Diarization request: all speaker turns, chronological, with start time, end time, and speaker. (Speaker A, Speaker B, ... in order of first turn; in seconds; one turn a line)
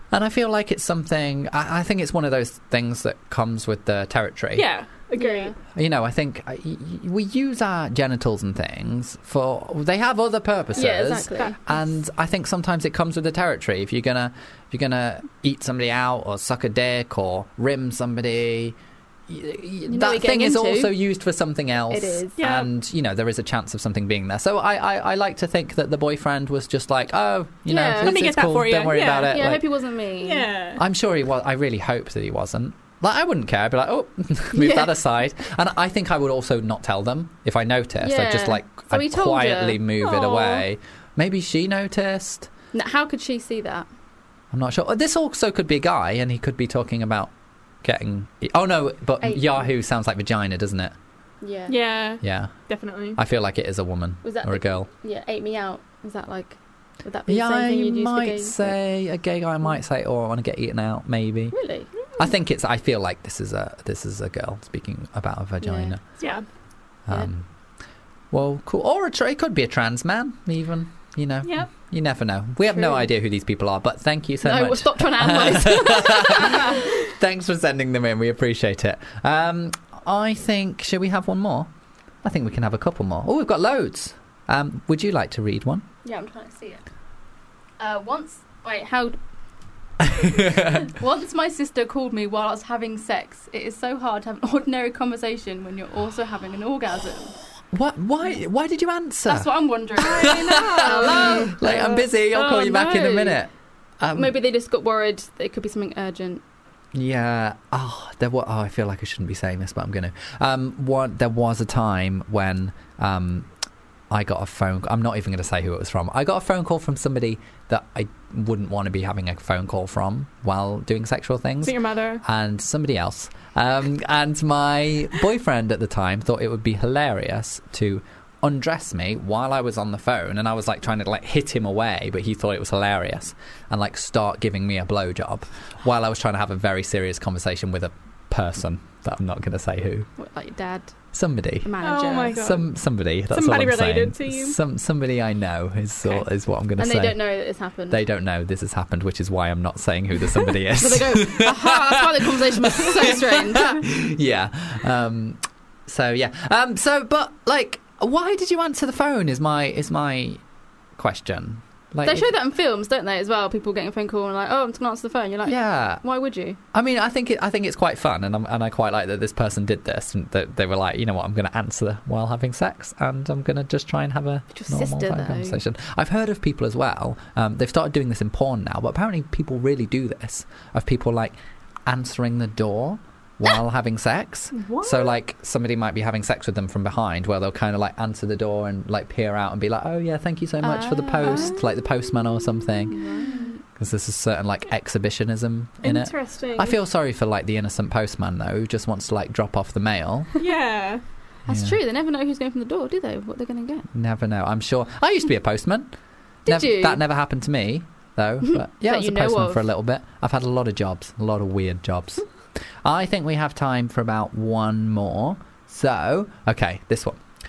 Speaker A: 0.1-4.7
Speaker B: 4.5-5.5
Speaker C: 5.1-5.5
Speaker A: 5.7-18.8
Speaker C: 10.7-11.6
Speaker A: 19.3-29.6
Speaker C: 19.9-20.9
Speaker C: 21.9-22.4
Speaker B: 22.4-22.7
Speaker C: 27.7-28.3
Speaker B: 28.0-29.5
Speaker C: 29.2-30.5
Speaker B: 30.2-30.8
Speaker A: 30.8-42.5
Speaker C: 34.5-34.9
Speaker C: 38.0-39.8
Speaker B: 40.0-40.6
Speaker C: 42.7-43.9
Speaker A: 44.5-47.3
Speaker A: 47.8-50.9
Speaker C: 49.2-49.7
Speaker C: 51.4-51.8
Speaker B: 51.7-53.2
Speaker A: 52.2-52.5
Speaker A: 53.1-54.9
Speaker C: 54.2-58.8
Speaker A: 57.3-61.5
Speaker C: 61.5-61.9
Speaker A: 62.2-66.0
Speaker C: 65.6-66.3
Speaker A: 67.1-67.5
Speaker A: 68.3-81.7
Speaker B: 71.4-71.7
Speaker C: 72.7-73.1
Speaker C: 74.4-76.9
Speaker A: 82.2-85.8
Speaker C: 86.0-86.8
Speaker C: 87.8-89.2
Speaker A: 90.1-90.8
Speaker C: 90.8-97.4
Speaker A: 97.7-104.3
Speaker C: 99.2-103.4
Speaker B: 100.0-102.0
Speaker C: 104.1-106.4
Speaker A: 106.9-113.5
Speaker A: 114.1-140.1
Speaker B: 121.6-122.2
Speaker C: 140.2-140.9
Speaker A: 141.1-141.7
Speaker C: 141.6-142.5
Speaker B: 141.8-142.7
Speaker A: 142.3-147.2
Speaker B: 143.3-144.6
Speaker C: 146.8-148.0
Speaker A: 147.9-160.4
Speaker C: 150.8-153.8
Speaker A: 161.0-162.3
Speaker C: 162.0-166.6
Speaker A: 165.5-166.0
Speaker A: 166.7-192.9
Speaker C: 174.5-175.6
Speaker B: 184.5-185.1
Speaker C: 190.6-191.6
Speaker B: 191.2-191.6
Speaker C: 192.9-193.6
Speaker B: 193.0-193.5
Speaker A: 193.8-200.3
Speaker B: 195.8-196.8
Speaker B: 200.4-201.0
Speaker C: 201.4-203.9
Speaker A: 201.5-201.8
Speaker A: 203.9-205.9
Speaker C: 206.4-207.0
Speaker A: 206.5-212.2
Speaker C: 208.4-209.6
Speaker A: 212.8-217.2